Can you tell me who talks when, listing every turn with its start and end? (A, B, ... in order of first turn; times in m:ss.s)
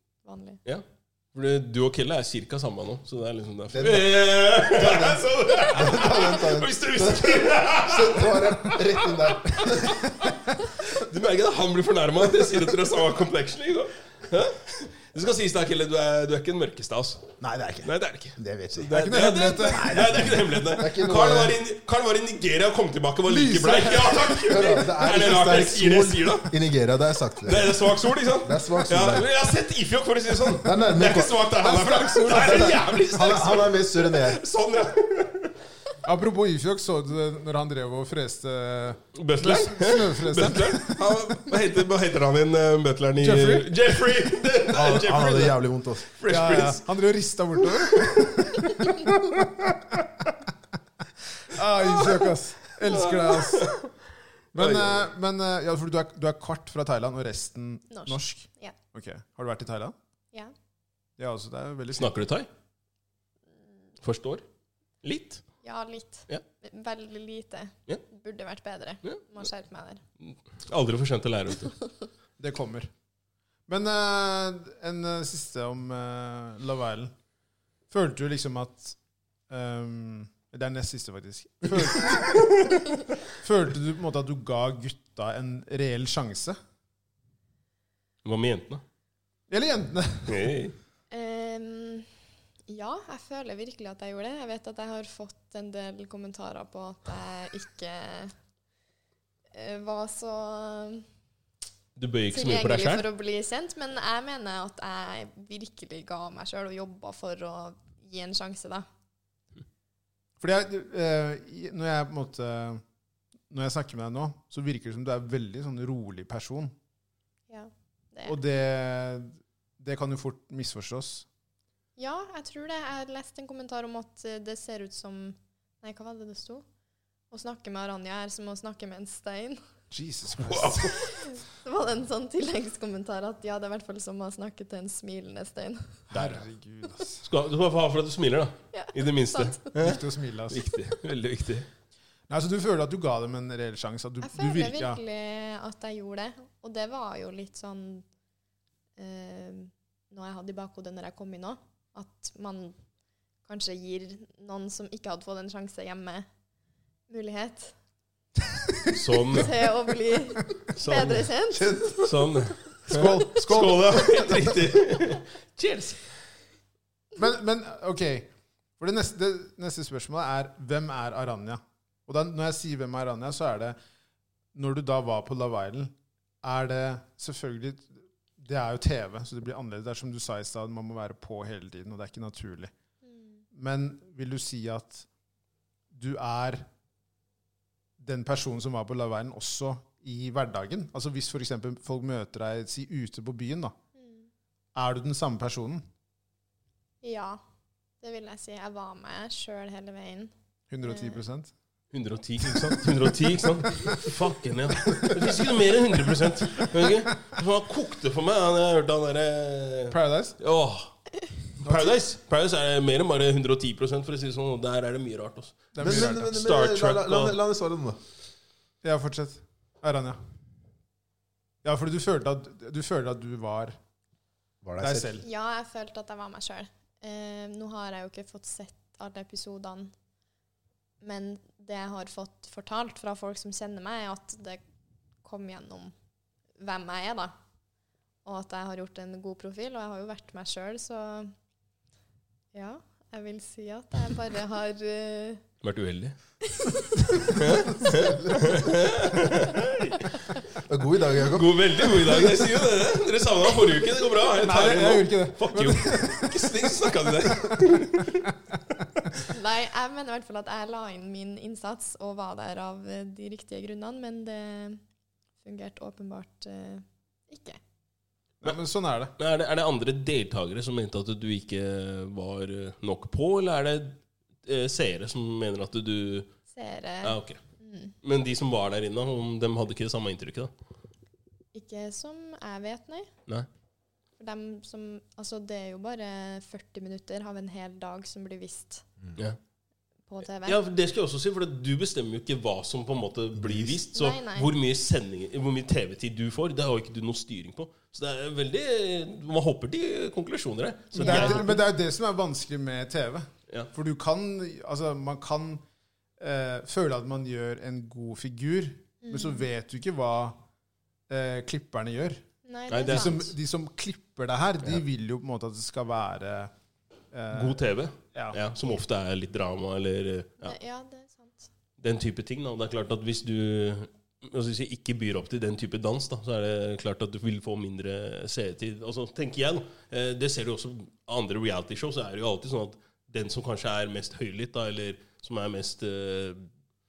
0:00.2-0:00.6 A
0:00.6-0:17.3 B
0:03.7-0:10.1 C
0:17.4-0:19.0 C
0:17.8-0:26.6 B
0:18.9-0:20.3 D
0:19.7-0:21.6 C
0:23.3-0:24.9 D
0:24.5-0:29.3 C
0:27.4-0:35.5 B
0:30.5-0:31.5 C
0:31.6-0:32.8 D
0:32.3-0:34.4 C
0:36.0-0:41.0 D
0:39.2-0:46.8 B
0:43.2-0:43.7 D
0:44.7-0:46.1 C
0:46.3-0:50.3 D
0:47.7-0:48.2 B
0:51.4-0:53.7 D
0:52.9-0:53.9 B
0:54.6-1:00.0 D
0:54.6-0:55.1 B
0:57.9-0:58.8 A
1:01.2-1:02.2 D
1:01.9-1:02.5 B
1:04.0-1:04.4 B
1:05.0-1:05.4 B
1:05.6-1:10.0 A
1:10.2-1:11.8 B
1:12.4-1:12.9 D
1:13.7-1:17.1 D
1:17.9-1:19.0 D
1:19.5-1:26.6 D
1:28.2-1:28.8 B
1:29.5-1:30.5 D
1:30.3-1:30.8 B
1:31.1-1:32.1 A
1:32.7-1:38.3 A
1:39.5-1:41.0 A
1:42.0-1:43.0 B
1:42.3-1:48.9 A
1:50.4-1:52.8 D
1:53.5-1:56.7 D
1:57.5-1:58.4 A
1:58.3-2:01.3 D
2:02.0-2:06.6 A
2:07.3-2:09.6 A
2:09.9-2:11.0 D
2:10.4-2:11.0 B
2:10.9-2:16.0 A
2:16.1-2:16.4 B
2:16.1-2:17.3 D
2:17.2-2:21.7 B
2:18.7-2:19.7 A
2:19.8-2:20.6 D
2:22.3-2:25.0 D
2:24.2-2:28.1 A
2:29.0-2:32.8 A
2:33.4-2:36.3 A
2:37.1-2:37.8 A
2:38.9-2:39.7 B
2:39.3-2:42.0 A
2:40.7-2:41.3 B
2:41.5-2:42.3 C
2:42.0-2:46.0 B
2:42.9-2:44.4 D
2:47.2-2:53.8 D
2:54.5-3:02.7 D
3:03.0-3:03.4 A
3:03.5-3:05.0 D
3:05.9-3:06.7 D
3:08.0-3:13.8 D
3:14.0-3:14.3 A
3:14.8-3:15.9 D
3:17.0-3:17.4 A
3:18.0-3:20.3 A
3:20.7-3:21.5 D
3:20.8-3:21.2 A
3:21.9-3:30.9 B
3:22.5-3:22.8 D
3:29.9-3:30.4 D
3:31.6-3:37.4 B
3:31.6-3:31.9 D
3:35.8-3:36.3 D
3:35.8-3:38.0 C
3:38.8-3:40.2 D
3:41.6-3:43.8 D
3:44.6-3:45.2 C
3:44.8-3:45.2 D
3:45.2-3:49.9 A
3:51.0-3:54.6 A
3:55.2-3:55.9 A
3:56.6-3:57.3 A
3:58.2-4:01.3 A
4:02.5-4:05.4 A
4:05.6-4:06.2 B
4:06.5-4:07.4 A
4:07.2-4:10.2 B
4:07.8-4:08.7 C
4:10.6-4:12.3 C
4:11.3-4:18.2 B
4:14.4-4:18.2 D
4:19.3-4:24.8 A
4:25.4-4:27.6 A
4:28.4-4:29.1 D
4:29.2-4:36.3 B
4:36.5-4:38.0 A
4:37.0-4:37.4 B
4:38.0-4:40.5 B
4:41.5-4:43.1 A
4:44.2-4:48.8 A
4:50.1-4:50.6 A
4:50.4-5:01.6 B
4:53.4-4:53.8 C
4:53.9-4:54.5 A
5:01.0-5:05.6 D
5:06.2-5:10.4 D
5:09.0-5:09.5 A
5:11.1-5:12.2 D
5:12.4-5:13.3 A
5:12.7-5:13.2 B
5:12.9-5:16.5 D
5:17.1-5:17.6 D
5:17.3-5:20.6 B
5:18.1-5:18.4 D
5:20.4-5:21.5 A
5:21.8-5:36.5 B